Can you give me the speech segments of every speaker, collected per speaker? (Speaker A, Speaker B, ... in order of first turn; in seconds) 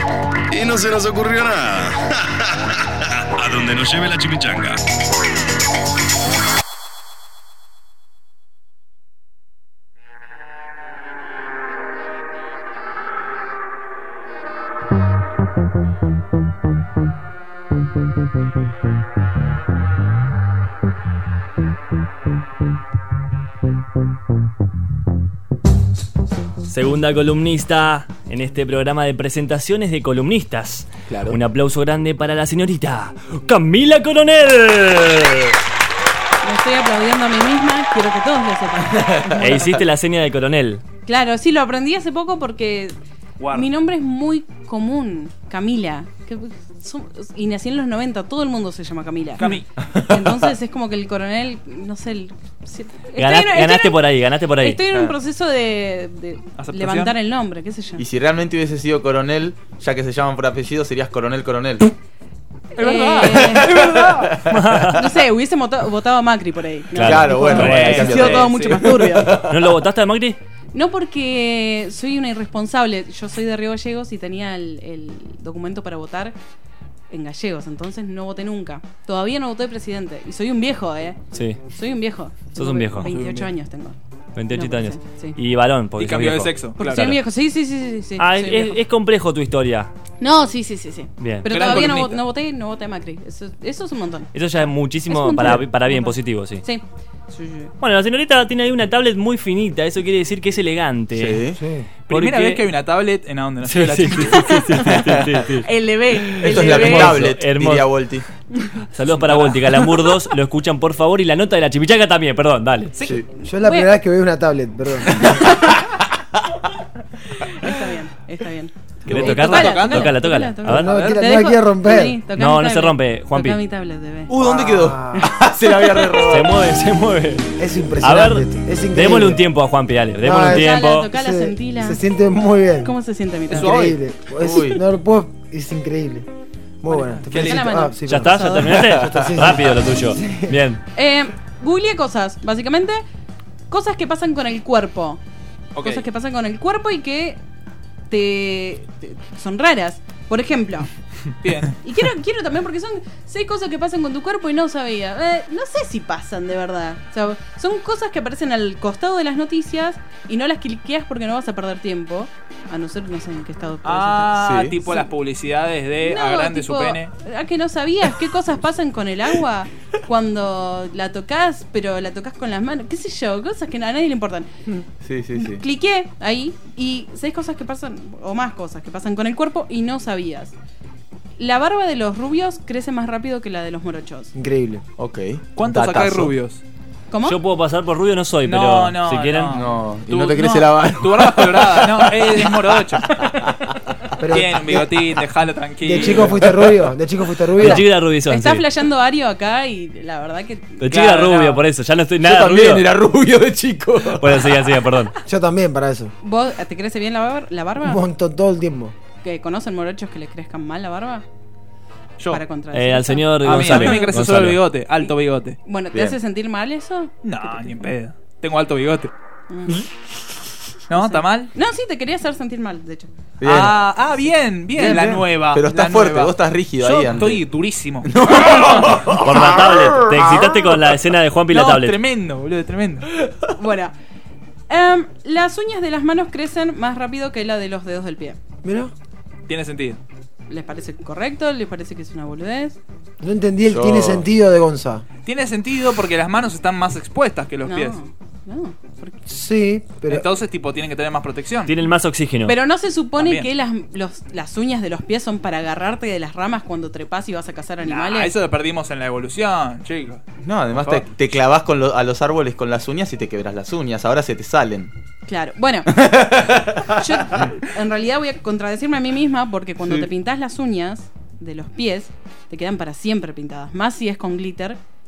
Speaker A: 0.5-4.8
Speaker B: 26.7-35.5, 39.4-40.8, 53.2-54.8, 64.5-65.0, 66.9-68.3, 69.2-70.4, 81.3-81.6, 82.5-83.1, 84.3-87.2, 88.2-89.9, 91.2-91.8, 94.3-96.6, 97.8-101.4, 102.1-102.6, 103.6-105.7, 106.5-108.0, 108.9-112.9, 119.1-120.9, 122.3-123.6, 126.2-131.1, 138.0-140.8, 187.2-189.6, 197.6-198.7, 200.8-202.9, 204.1-205.2, 212.7-214.6, 229.1-232.0, 251.7-252.6
Speaker C: 31.1-31.4, 49.9-50.3, 58.0-61.9, 63.4-64.4, 67.0-69.6, 101.1-101.6, 106.4-108.2, 124.3-126.5, 134.4-134.8, 138.7-139.4, 164.4-164.8, 175.0-175.6, 185.0-186.3, 189.5-193.7, 196.2-196.7, 202.2-204.4, 223.4-223.8, 224.8-227.4, 228.0-230.9, 243.6-244.3, 260.4-264.9, 266.0-267.5, 269.8-270.1
Speaker D: 36.4-39.8, 41.0-43.0, 43.5-58.0, 62.8-64.2, 64.9-69.5, 70.7-76.3, 77.1-81.2, 81.7-84.0, 84.5-85.4, 86.8-88.8, 90.2-94.4, 95.1-97.7, 104.4-105.0, 105.6-107.2, 113.5-113.9, 117.4-124.3, 130.5-132.0, 132.8-133.8, 136.9-138.8, 140.9-143.0, 143.7-145.2, 145.8-147.4, 148.1-150.9, 151.8-165.1, 166.0-174.5, 175.3-180.5, 181.4-184.3, 187.1-187.4, 198.3-200.9, 206.2-208.0, 209.2-211.2, 212.3-214.1, 215.6-217.8, 219.5-219.9, 220.9-223.1, 233.6-233.9, 234.7-238.4, 240.5-242.8, 247.7-249.2, 252.4-258.3, 265.2-265.9, 266.7-274.8
Speaker E: 43.4-43.7, 49.4-49.6, 56.6-57.2, 62.8-64.4, 67.6-68.9, 83.0-83.5, 86.0-86.9, 91.4-92.2, 102.0-104.5, 113.0-113.2, 119.1-120.1, 133.5-134.0, 137.3-137.7, 145.7-146.1, 151.4-151.8, 163.8-167.1, 185.6-186.6, 188.4-193.2, 194.2-196.4, 200.8-201.6, 213.4-215.6, 217.2-219.1, 220.9-221.5, 223.4-229.0, 231.5-233.1, 239.5-240.0, 245.2-248.0, 250.1-251.7, 253.2-253.5, 257.8-261.1
Speaker F: 101.6-101.9, 113.3-115.6, 120.7-122.2, 124.4-125.3, 127.6-129.4, 130.2-132.9, 133.5-136.3, 136.8-140.6, 184.3-184.8, 194.2-194.9, 195.8-197.9, 205.2-206.1, 207.8-208.9, 238.6-238.9, 243.2-245.0, 249.2-250.3